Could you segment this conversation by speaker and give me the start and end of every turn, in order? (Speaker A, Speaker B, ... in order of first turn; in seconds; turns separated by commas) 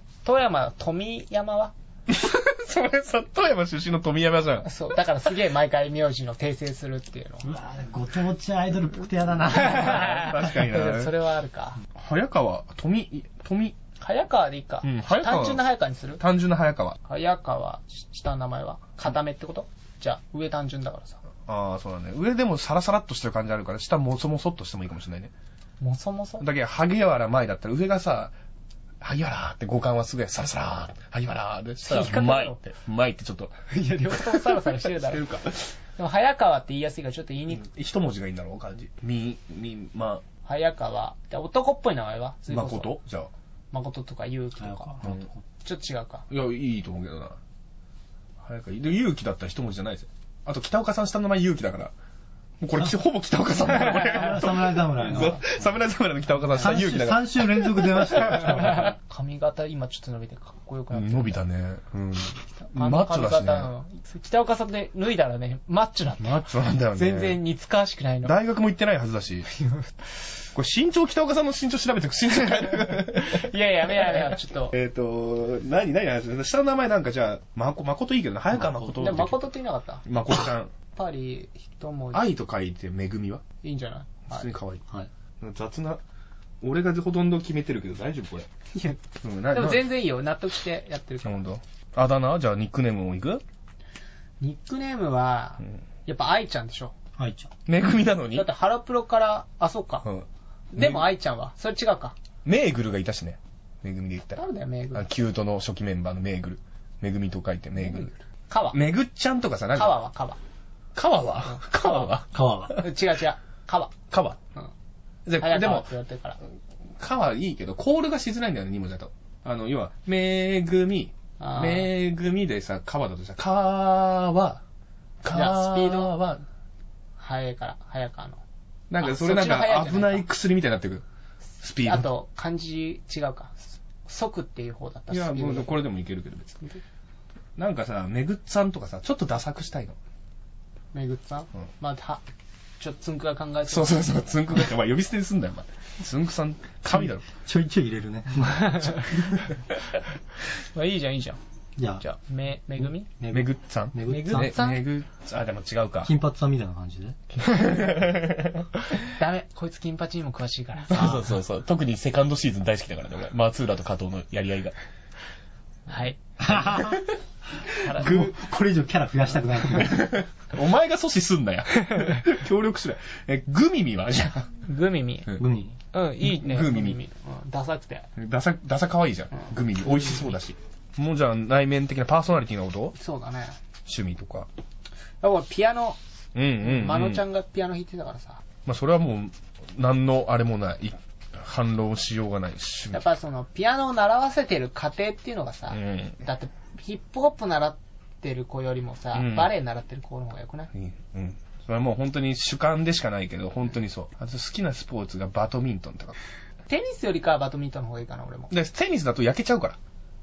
Speaker A: 0.2-1.7, Speaker B: 2.1-4.7, Speaker A: 4.6-7.5, Speaker C: 7.4-10.1, Speaker A: 9.5-11.8, Speaker B: 9.6-11.1, Speaker B: 11.9-13.7, Speaker A: 14.0-16.2, Speaker B: 14.8-15.6, Speaker B: 16.2-17.0, Speaker A: 17.0-21.2, Speaker B: 21.4-25.3, Speaker A: 25.8-26.4, Speaker B: 26.4-28.3, Speaker B: 29.0-33.5, Speaker A: 31.8-32.6, Speaker A: 33.7-35.2, Speaker B: 34.1-35.7, Speaker A: 36.0-37.6, Speaker B: 37.5-40.2, Speaker A: 40.4-42.9, Speaker B: 42.5-43.3, Speaker A: 43.7-45.1, Speaker C: 44.6-45.3, Speaker A: 45.6-46.2, Speaker B: 46.3-47.4, Speaker B: 48.4-51.9, Speaker B: 52.6-58.8, Speaker C: 53.7-55.7, Speaker A: 55.1-55.4, Speaker C: 56.5-58.9, Speaker A: 58.2-61.4, Speaker B: 60.9-63.7, Speaker A: 62.6-68.3, Speaker B: 66.2-67.4, Speaker B: 68.2-69.5, Speaker A: 69.5-69.9, Speaker B: 70.5-79.4, Speaker A: 72.5-74.7, Speaker C: 78.5-79.1, Speaker A: 79.0-80.0, Speaker B: 80.0-80.7, Speaker A: 80.9-82.2, Speaker B: 82.1-83.4, Speaker A: 83.6-84.5, Speaker B: 84.3-84.8, Speaker B: 85.4-86.0, Speaker B: 86.6-88.5, Speaker A: 88.7-91.4, Speaker B: 89.2-89.9, Speaker B: 91.2-93.4, Speaker A: 94.4-96.9, Speaker C: 97.2-97.5, Speaker B: 97.7-98.5, Speaker A: 98.3-100.1, Speaker B: 100.0-101.0, Speaker A: 100.7-102.1, Speaker B: 102.4-104.4, Speaker A: 104.3-105.1, Speaker B: 104.9-108.1, Speaker A: 107.8-108.8, Speaker B: 108.7-110.0, Speaker A: 109.7-110.4, Speaker B: 110.9-112.8, Speaker A: 111.5-112.1, Speaker C: 112.3-112.8, Speaker A: 112.8-114.0, Speaker B: 114.1-114.4, Speaker B: 115.2-115.9, Speaker A: 115.4-116.4, Speaker B: 117.0-124.6, Speaker A: 121.4-121.9, Speaker B: 125.2-126.4, Speaker A: 125.3-126.1, Speaker A: 127.2-128.4, Speaker B: 128.9-131.0, Speaker A: 129.0-130.2, Speaker B: 131.6-132.1, Speaker A: 131.8-135.8, Speaker B: 135.1-136.6, Speaker B: 137.6-140.0, Speaker A: 140.9-142.2, Speaker A: 142.8-144.1, Speaker B: 143.7-147.2, Speaker C: 147.2-149.1, Speaker A: 148.4-149.5, Speaker A: 150.7-151.4, Speaker C: 151.8-152.0, Speaker A: 152.0-153.1, Speaker C: 153.2-154.5, Speaker B: 153.3-156.1, Speaker A: 154.1-154.8, Speaker C: 156.0-157.2, Speaker B: 157.3-158.7, Speaker A: 159.1-161.2, Speaker B: 160.9-164.7, Speaker A: 165.9-166.2, Speaker C: 166.4-167.1, Speaker C: 167.6-170.2, Speaker A: 167.8-168.2, Speaker B: 169.7-174.5, Speaker A: 174.6-175.3, Speaker C: 175.4-175.8, Speaker A: 175.9-178.1, Speaker B: 176.2-177.0, Speaker B: 178.2-182.9, Speaker A: 182.9-183.6, Speaker B: 183.8-184.5, Speaker A: 185.2-186.0, Speaker B: 186.3-187.2, Speaker A: 186.6-188.4, Speaker B: 188.6-193.0, Speaker A: 192.9-200.7, Speaker B: 195.7-196.2, Speaker B: 199.1-199.5, Speaker B: 200.7-206.2, Speaker A: 206.7-208.5, Speaker B: 208.5-209.8